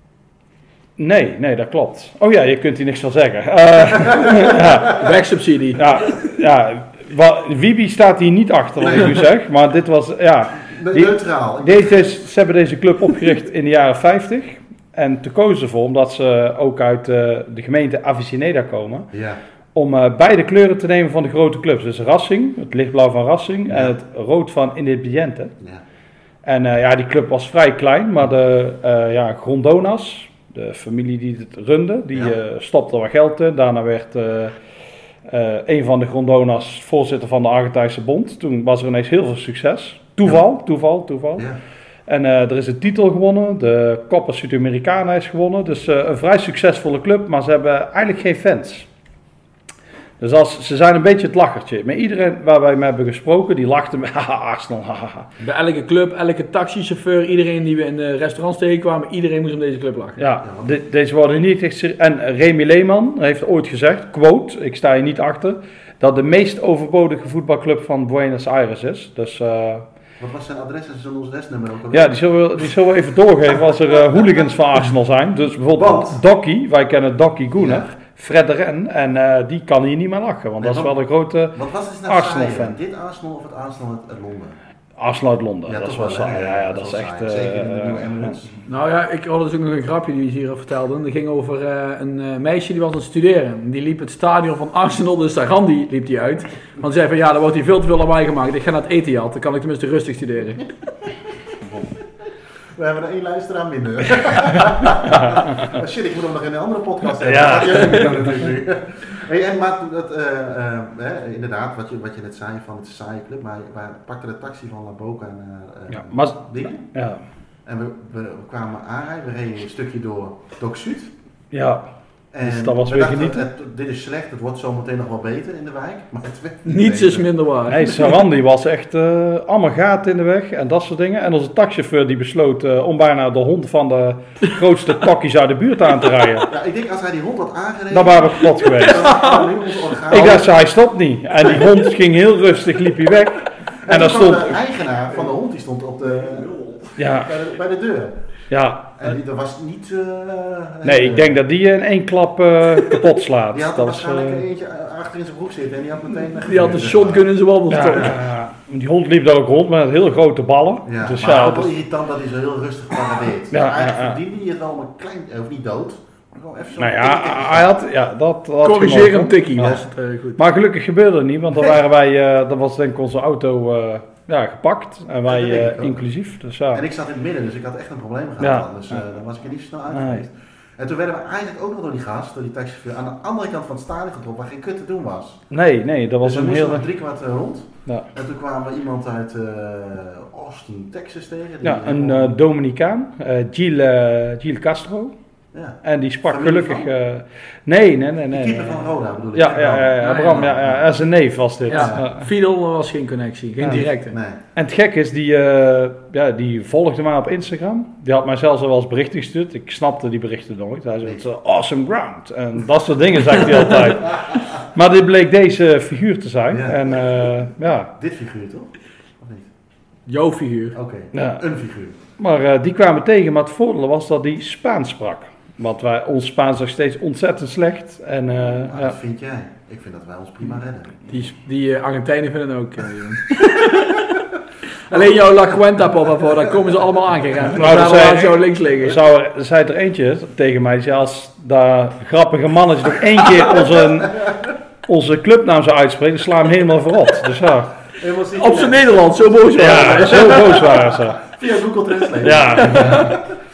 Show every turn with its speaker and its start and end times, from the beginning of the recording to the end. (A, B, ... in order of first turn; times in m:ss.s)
0:01.0-0:05.1 A
0:04.8-0:06.2 B
0:05.8-0:19.1 A
0:08.8-0:09.2 C
0:10.7-0:11.9 C
0:19.1-0:19.4 C
0:19.7-0:25.5 A
0:23.7-0:23.9 C
0:26.4-0:34.6 A
0:35.2-0:41.5 A
0:42.1-0:48.9 A
0:50.2-0:55.3 A
0:55.4-1:00.2 B
1:00.2-1:09.8 A
1:00.4-1:00.7 C
1:10.2-1:12.1 C
1:11.9-1:22.8 A
1:15.7-1:16.2 C
1:17.6-1:17.9 C
1:20.6-1:21.0 C
1:21.5-1:24.6 C
1:25.0-1:28.3 A
1:25.7-1:28.6 C
1:28.7-1:40.7 B
1:42.8-1:56.8 C
1:45.0-1:45.7 A
1:47.2-1:48.3 A
1:55.9-1:57.2 A
1:57.6-2:01.1 C
2:01.5-2:01.8 A
2:02.3-2:07.3 C
2:02.4-2:03.5 A
2:06.6-2:08.0 B
2:07.7-2:16.5 A
2:16.5-2:20.6 C
2:17.9-2:19.3 A
2:18.8-2:19.5 B
2:20.1-2:24.6 A
2:23.8-2:28.2 C
2:27.0-2:27.4 A
2:28.5-2:29.1 A
2:29.0-2:31.4 C
2:30.8-2:34.4 A
2:33.5-2:37.3 C
2:36.4-2:38.2 B
2:37.7-2:41.7 A
2:37.9-2:38.2 C
2:40.8-2:47.8 C
2:43.5-2:44.2 A
2:46.8-2:49.8 A
2:48.6-2:50.4 B
2:50.4-2:56.8 A
2:55.2-2:56.0 C
2:56.7-3:05.4 C
2:58.4-2:59.0 A
2:59.9-3:00.2 A
3:05.5-3:06.9 A
3:06.2-3:12.3 C
3:11.6-3:15.1 A
3:15.5-3:16.9 C
3:15.8-3:18.8 A
3:18.3-3:20.9 C
3:19.3-3:22.2 A
3:20.0-3:20.5 B
3:21.7-3:24.2 B
3:21.7-3:22.1 C
3:23.8-3:24.4 C
3:24.6-3:37.9 A
3:36.5-3:37.0 C
3:38.0-3:39.5 C
3:40.1-3:40.8 B
3:40.7-3:42.0 C
3:41.1-3:41.4 A
3:42.2-3:49.0 A
3:48.5-3:51.0 C
3:51.1-3:54.1 B
3:54.9-3:59.0 B
3:57.5-4:04.3 A
4:04.8-4:07.7 A
4:08.0-4:13.3 C
4:08.4-4:10.7 B
4:09.6-4:11.2 A
4:12.2-4:13.2 A
4:12.7-4:13.0 B